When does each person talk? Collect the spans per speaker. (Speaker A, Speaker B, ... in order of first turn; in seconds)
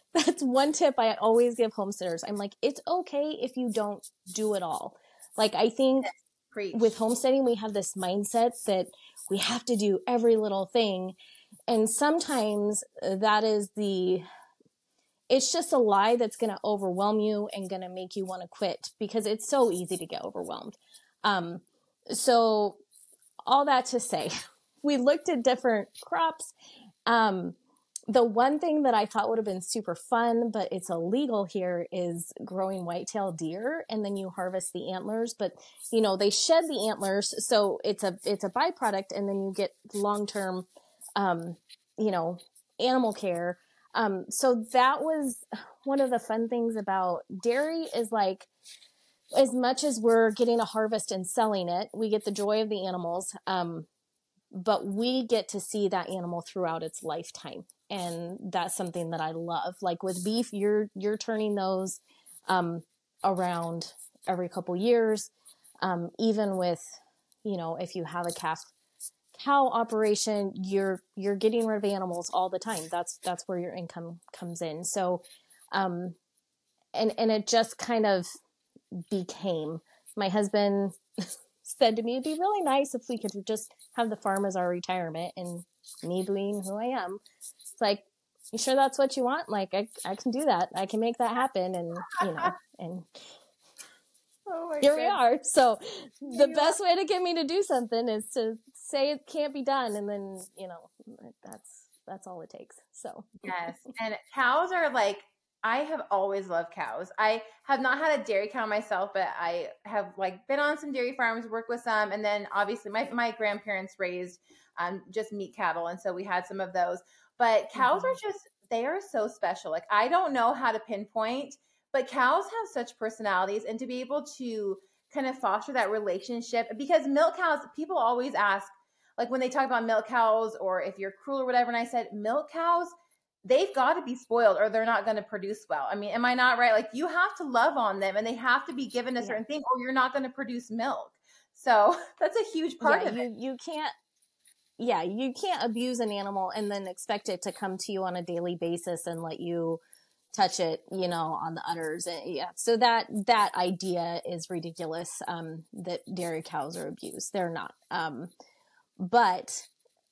Speaker A: 0.1-6.1, 6.7-11.2, 11.7-14.2, 15.3-22.8, 23.5-26.5, 27.1-27.6, 28.1-48.5, 49.4-53.9, 54.5-65.3, 65.8-68.7, 69.3-76.2, 76.9-78.3, 79.1-81.0, 81.6-87.2, 87.8-93.2, 94.8-103.8, 117.8-118.2, 142.8-143.9, 144.8-149.8, 150.3-158.3, 159.0-159.7
Speaker B: 6.5-6.8, 92.1-92.5, 94.5-95.2, 96.3-96.8, 103.5-132.9, 133.4-143.2